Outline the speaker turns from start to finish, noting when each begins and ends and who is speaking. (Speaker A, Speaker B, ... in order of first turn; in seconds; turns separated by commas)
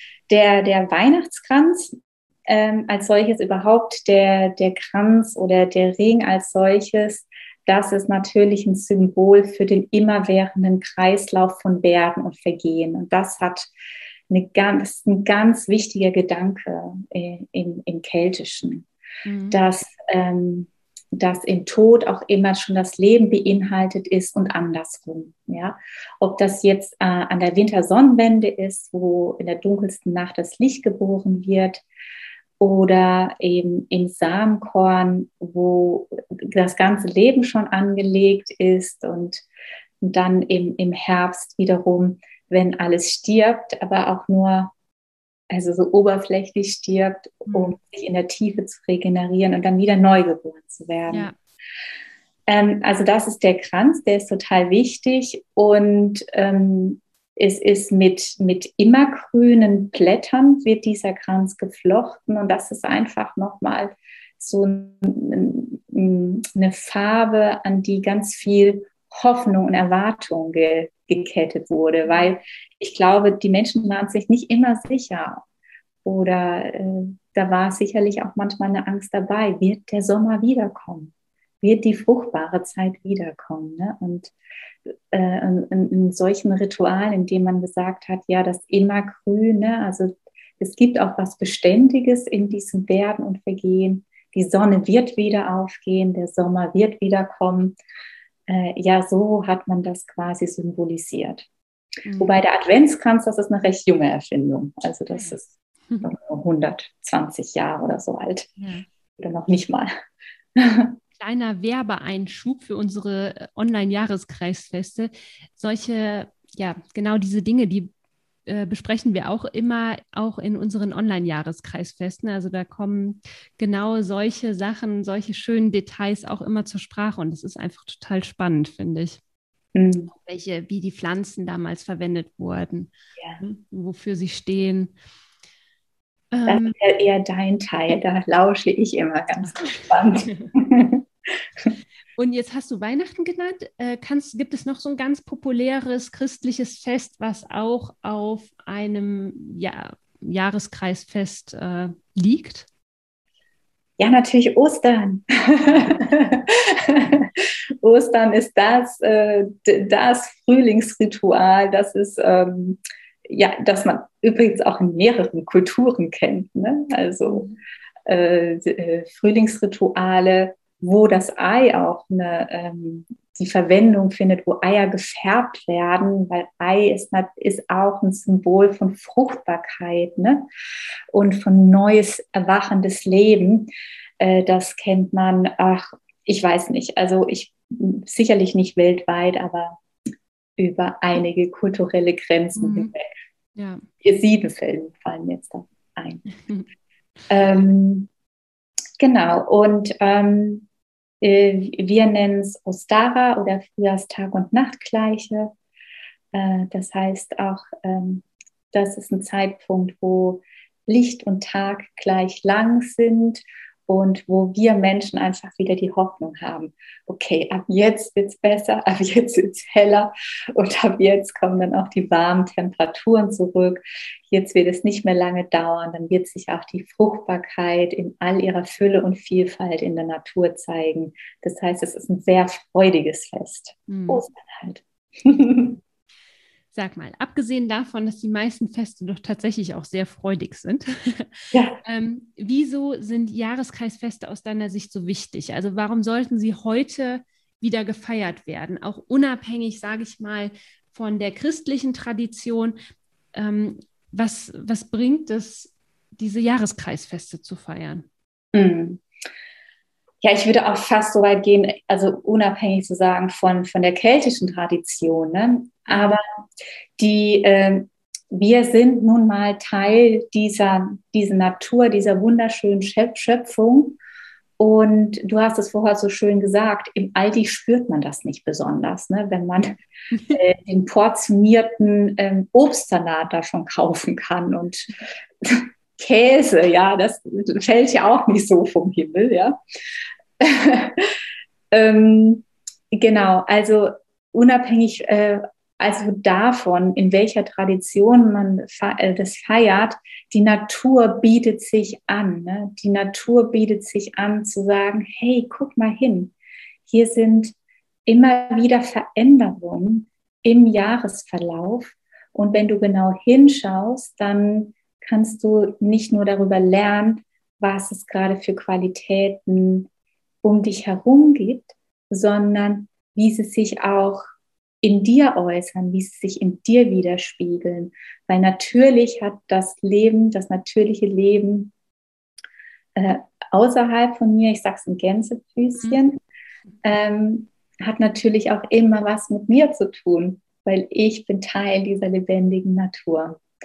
Speaker A: 0.3-13.7, Speaker A: 14.3-18.9, Speaker B: 19.3-19.6, Speaker A: 19.5-31.8, Speaker A: 32.6-39.5, Speaker A: 40.0-44.7, Speaker A: 45.5-51.3, Speaker B: 47.5-47.8, Speaker B: 51.1-51.4, Speaker A: 52.5-75.4, Speaker B: 72.1-72.3, Speaker A: 76.0-84.3, Speaker A: 84.9-97.8, Speaker A: 98.5-101.5, Speaker B: 102.1-102.4, Speaker A: 102.2-105.5, Speaker B: 105.1-106.1, Speaker A: 106.0-108.5, Speaker B: 108.6-108.9, Speaker A: 109.2-109.9, Speaker A: 110.6-111.0, Speaker B: 111.2-117.9, Speaker B: 118.5-129.2, Speaker A: 129.8-130.1, Speaker B: 130.1-134.9, Speaker B: 136.3-136.8, Speaker A: 136.5-141.1, Speaker B: 139.5-140.5, Speaker B: 142.2-152.7, Speaker A: 154.0-167.5, Speaker B: 167.3-167.6, Speaker A: 168.1-180.5, Speaker A: 181.1-189.8, Speaker A: 190.6-193.1, Speaker B: 192.6-192.9, Speaker B: 193.6-193.9, Speaker A: 194.0-196.3, Speaker B: 196.4-196.7, Speaker A: 197.3-198.1, Speaker A: 199.0-200.7, Speaker A: 201.2-205.5, Speaker A: 206.3-235.8, Speaker B: 233.9-234.3, Speaker B: 236.7-241.3, Speaker A: 241.5-241.8, Speaker B: 241.8-252.8, Speaker B: 253.3-258.1, Speaker A: 258.5-259.0, Speaker A: 260.2-266.2, Speaker A: 267.0-274.0, Speaker A: 274.6-279.8, Speaker B: 280.1-280.4, Speaker A: 280.3-289.6, Speaker A: 290.4-291.2, Speaker A: 291.7-306.3, Speaker A: 306.9-319.9, Speaker A: 320.4-324.2, Speaker A: 324.8-331.7, Speaker A: 332.9-336.2, Speaker A: 336.8-343.4